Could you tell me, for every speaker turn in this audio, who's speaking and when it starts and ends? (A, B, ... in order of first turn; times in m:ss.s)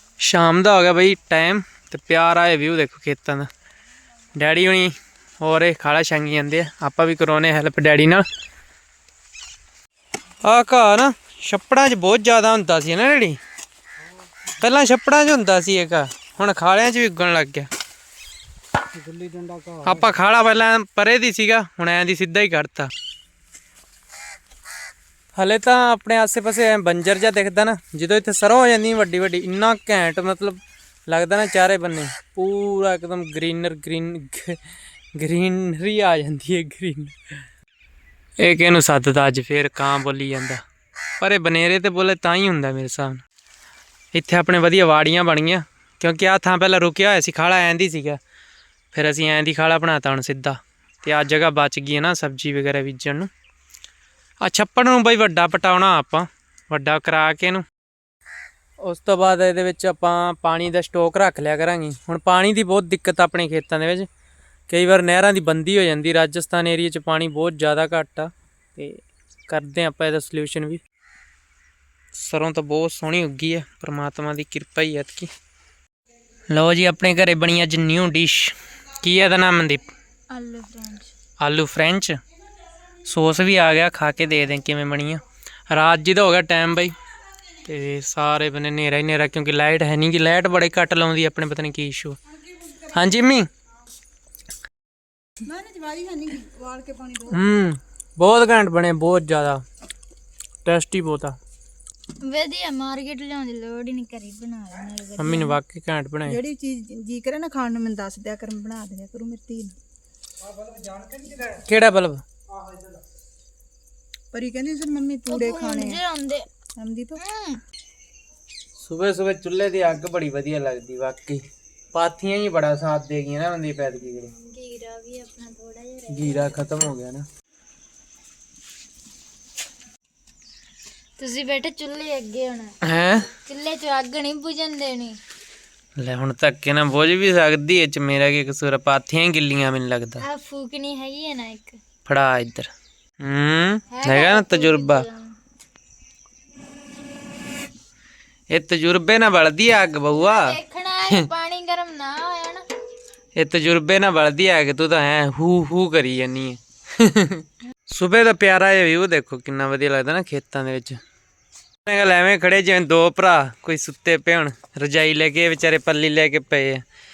0:00.2-0:03.5 A
0:04.4-0:08.2 A
0:10.4-0:13.4 A
0:14.6-0:17.7 A
0:18.9-0:20.1 B
0:19.8-0:22.9 A
0:25.4-0:34.6 A
0:35.2-0:37.1 A
0:38.4-0:40.6 A
0:41.2-0:43.2 A
0:44.1-0:48.2 A
0:48.9-0:53.3 A
0:54.4-0:57.6 A
0:58.8-1:04.1 A
1:04.7-1:10.8 A
1:12.1-1:15.3 A
1:16.5-1:19.8 A
1:20.3-1:21.1 C
1:21.4-1:22.2 A
1:23.0-1:26.9 A
1:27.6-1:32.2 A
1:32.6-1:33.0 D
1:32.9-1:33.5 A
1:35.4-1:37.5 D
1:37.3-1:39.6 A
1:40.6-1:41.4 A
1:42.2-1:45.6 C
1:45.2-1:46.4 A
1:46.3-1:49.8 D
1:50.4-1:51.6 B
1:51.6-1:52.2 A
1:52.5-1:53.0 B
1:54.3-1:56.0 D
1:55.3-1:56.5 C
1:56.8-1:57.2 D
1:57.2-1:57.6 C
1:58.8-2:01.4 A
2:01.9-2:04.3 A
2:04.3-2:06.6 C
2:06.1-2:07.2 A
2:11.2-2:12.7 C
2:12.8-2:13.3 A
2:13.4-2:15.2 C
2:16.0-2:20.2 A
2:20.2-2:21.8 C
2:22.1-2:22.7 A
2:23.2-2:25.1 A
2:23.9-2:25.4 C
2:28.5-2:30.6 A
2:30.1-2:32.6 C
2:33.4-2:41.0 A
2:41.9-2:46.8 A